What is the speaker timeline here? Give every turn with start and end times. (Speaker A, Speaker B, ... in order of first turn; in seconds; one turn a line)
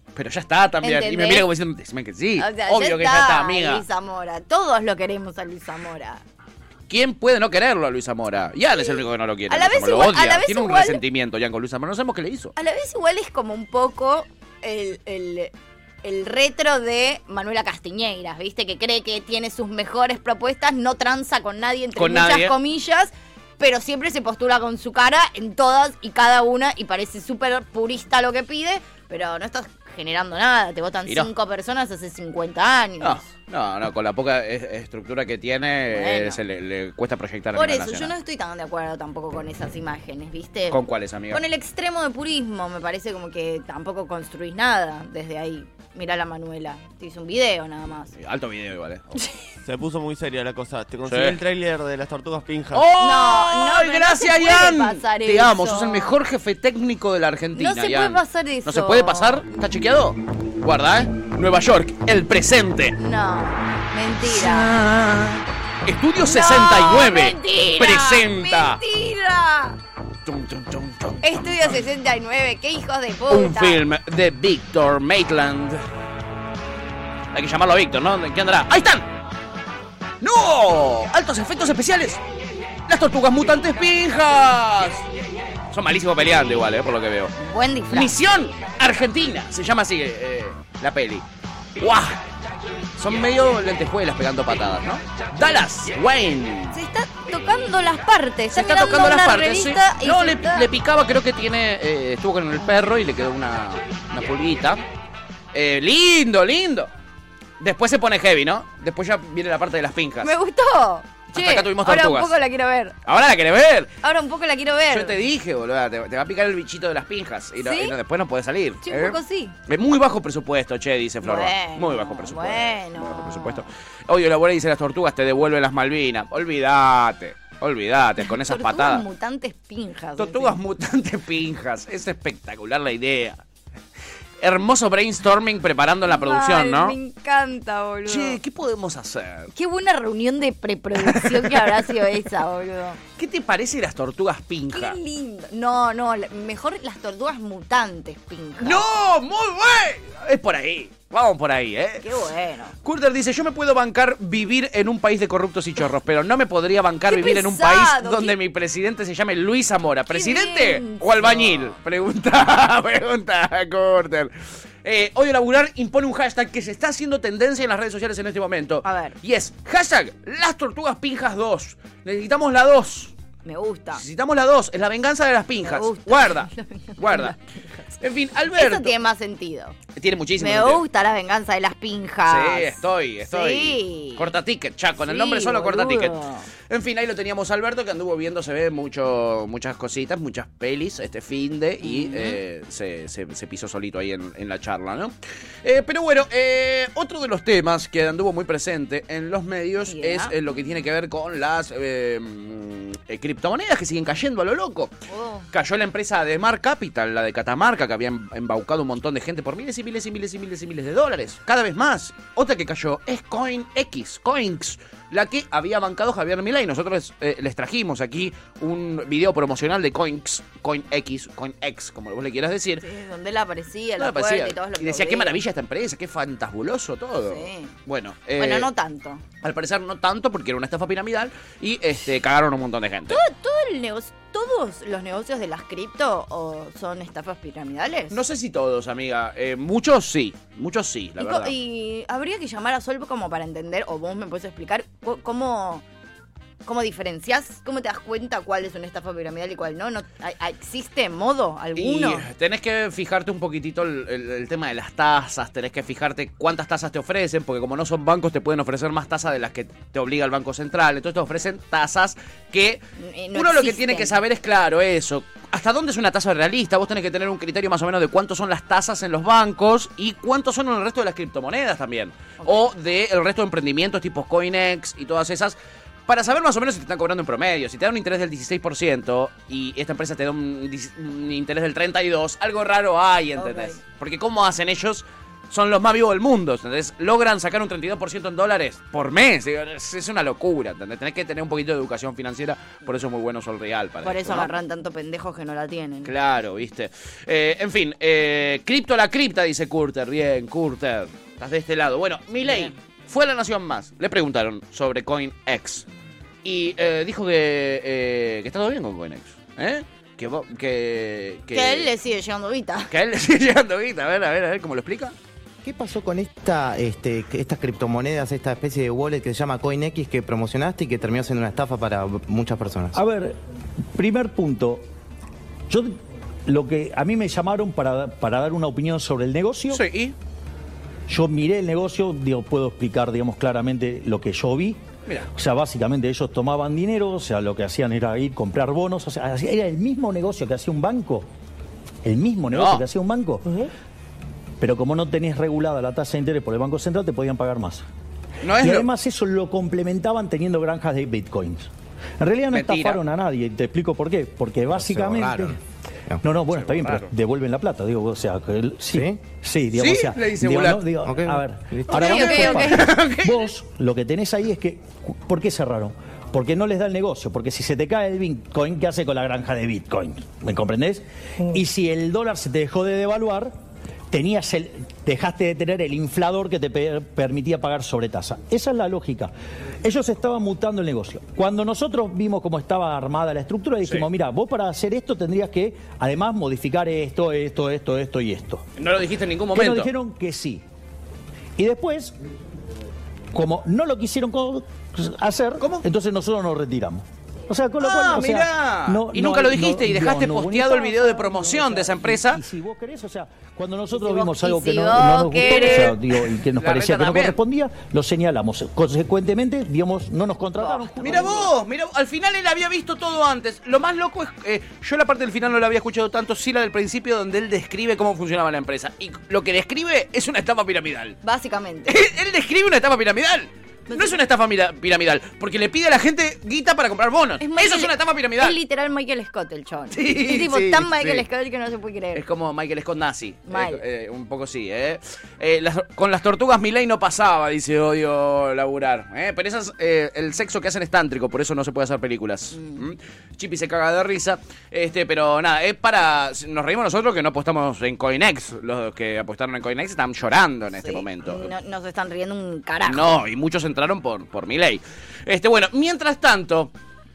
Speaker A: 0.1-3.8
Speaker B: 0.8-1.5
Speaker B: 2.4-6.2
Speaker A: 6.9-12.5
Speaker B: 8.8-11.0
Speaker B: 12.6-15.5
Speaker B: 16.0-33.3
Speaker A: 21.9-22.6
Speaker A: 33.0-38.1
Speaker B: 35.9-36.4
Speaker B: 37.5-40.8
Speaker A: 40.7-41.4
Speaker B: 41.3-48.1
Speaker A: 48.1-49.1
Speaker C: 49.6-52.9
Speaker A: 51.0-51.4
Speaker A: 52.7-63.0
Speaker B: 53.0-56.1
Speaker B: 57.5-59.5
Speaker B: 63.0-64.7
Speaker A: 64.2-68.8
Speaker B: 66.2-69.8
Speaker A: 70.2-71.8
Speaker B: 71.2-73.8
Speaker A: 73.3-75.8
Speaker A: 77.3-79.1
Speaker A: 80.2-82.2
Speaker A: 82.9-85.1
Speaker A: 85.7-87.3
Speaker B: 87.4-88.1
Speaker A: 87.9-91.2
Speaker A: 91.8-92.2
Speaker A: 93.0-96.8
Speaker B: 96.7-100.7
Speaker A: 98.5-104.8
Speaker A: 105.5-106.9
Speaker A: 107.6-110.3
Speaker B: 110.2-113.0
Speaker A: 111.3-112.4
Speaker A: 113.0-113.9
Speaker B: 114.0-115.2
Speaker A: 114.9-129.1
Speaker B: 117.6-118.0
Speaker B: 118.8-119.6
Speaker B: 121.2-123.7
Speaker B: 128.2-130.6
Speaker A: 130.2-133.4
Speaker A: 134.4-137.0
Speaker B: 136.1-138.4
Speaker A: 138.1-139.5
Speaker B: 139.5-143.0
Speaker A: 141.0-141.8
Speaker A: 143.2-145.0
Speaker B: 144.7-148.8
Speaker A: 148.6-152.1
Speaker B: 152.0-152.7
Speaker A: 152.8-173.1
Speaker B: 157.1-158.3
Speaker B: 160.1-161.8
Speaker B: 168.8-169.2
Speaker B: 173.4-174.0
Speaker A: 173.9-177.3
Speaker B: 175.6-177.4
Speaker A: 178.0-178.9
Speaker B: 178.5-179.8
Speaker A: 179.9-180.8
Speaker B: 180.4-184.3
Speaker A: 182.3-204.9
Speaker B: 185.0-186.5
Speaker B: 191.8-192.4
Speaker B: 199.8-200.3
Speaker B: 205.1-205.5
Speaker A: 205.5-222.8
Speaker B: 222.8-225.4
Speaker A: 224.0-228.7
Speaker B: 227.2-227.7
Speaker B: 228.4-229.2
Speaker A: 229.4-233.2
Speaker B: 233.1-238.2
Speaker A: 238.1-241.5
Speaker B: 241.2-245.8
Speaker B: 246.6-252.3
Speaker A: 251.7-262.8
Speaker B: 263.0-264.2
Speaker A: 263.3-294.5
Speaker B: 272.4-272.7
Speaker B: 283.4-283.8
Speaker B: 294.0-296.1
Speaker A: 296.0-305.9
Speaker B: 302.4-302.7
Speaker A: 306.4-311.9
Speaker B: 311.5-312.9
Speaker A: 312.9-315.1
Speaker D: 315.6-322.9
Speaker E: 322.9-323.4
Speaker E: 323.9-324.8
Speaker E: 325.7-329.8
Speaker A: 329.7-330.1
Speaker E: 331.1-334.8
Speaker E: 335.3-341.3
Speaker E: 342.0-343.7
Speaker A: 342.5-342.8
Speaker E: 344.6-347.8
Speaker A: 348.4-348.9
Speaker E: 348.6-355.6
Speaker A: 352.5-353.0
Speaker A: 354.8-355.5
Speaker E: 356.2-373.5
Speaker A: 356.5-357.1
Speaker D: 358.9-359.2
Speaker A: 359.7-360.9
Speaker D: 361.0-361.9
Speaker A: 361.9-363.5
Speaker B: 361.9-362.9
Speaker E: 374.1-388.6
Speaker A: 388.8-389.9
Speaker E: 389.5-390.6
Speaker E: 391.6-392.1
Speaker E: 393.3-411.5
Speaker A: 395.6-395.8
Speaker A: 397.8-402.4
Speaker B: 403.9-405.9
Speaker A: 405.5-406.0
Speaker A: 406.5-407.4
Speaker B: 410.6-411.5
Speaker A: 411.0-421.2
Speaker B: 421.2-422.0
Speaker A: 421.9-428.6
Speaker B: 423.9-424.1
Speaker B: 427.4-432.2
Speaker A: 429.9-431.2
Speaker A: 432.1-451.5
Speaker B: 433.5-433.8
Speaker B: 442.5-442.8
Speaker B: 450.7-453.2
Speaker A: 452.8-456.7